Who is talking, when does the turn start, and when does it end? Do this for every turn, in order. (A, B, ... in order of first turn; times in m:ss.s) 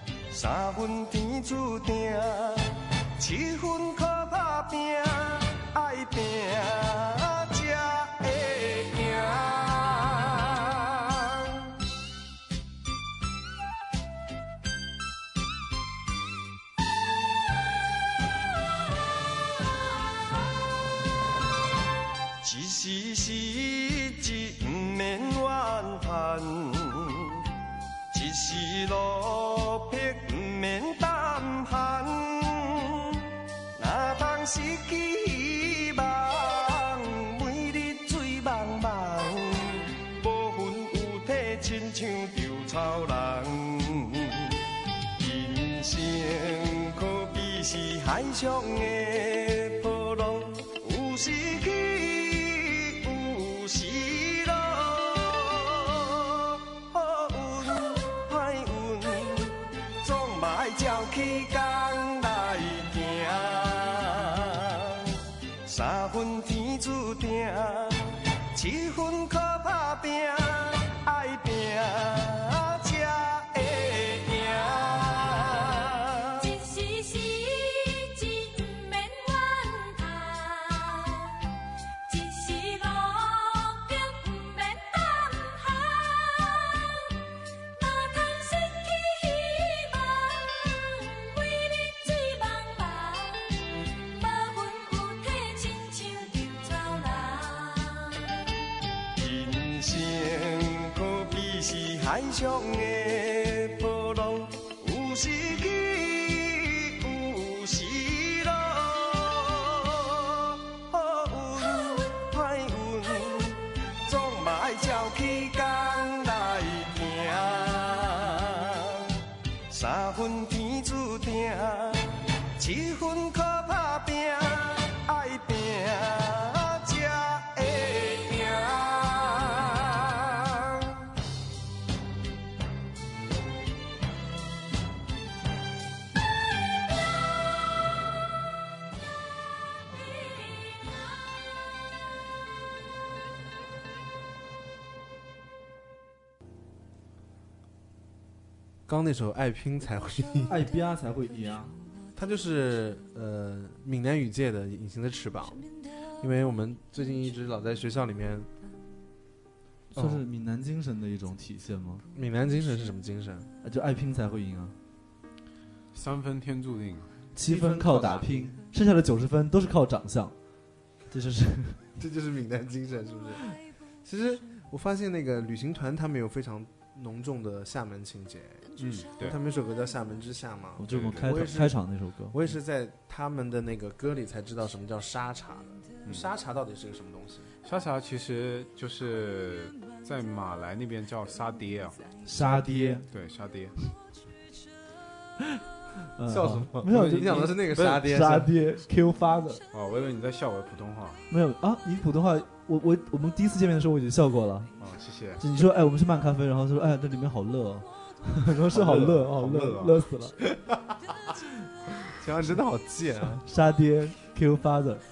0:00.3-0:11.8 A
0:22.4-0:27.5 A
0:28.1-0:44.6 A
0:45.2-1:16.4 A
1:16.4-1:21.4 B
1:22.1-1:38.2 B
1:39.2-2:11.1 A
2:28.9-2:30.6 C
2:30.5-2:31.8 D
2:32.2-2:35.6 C
2:36.2-2:38.5 C
2:39.9-2:42.0 D
2:40.0-2:40.2 C
2:42.1-2:43.5 C
2:43.6-2:44.8 D
2:45.9-2:47.1 E
2:47.4-2:50.4 D
2:47.4-2:48.6 C
2:51.1-2:51.8 D
2:52.0-2:53.4 C
2:54.0-2:58.6 C
2:58.8-2:59.4 E
2:59.2-3:01.8 C
3:00.8-3:02.6 D
3:00.9-3:01.4 E
3:02.3-3:07.5 C
3:07.6-3:12.0 E
3:12.2-3:13.0 D
3:12.4-3:13.0 C
3:13.1-3:13.8 E
3:16.2-3:19.6 D
3:16.3-3:18.5 C
3:19.7-3:21.2 E
3:21.3-3:24.7 D
3:24.8-3:25.4 E
3:25.4-3:30.4 D
3:28.8-3:30.0 E
3:28.9-3:29.5 C
3:30.4-3:31.4 C
3:32.0-3:33.4 C
3:33.4-3:35.0 D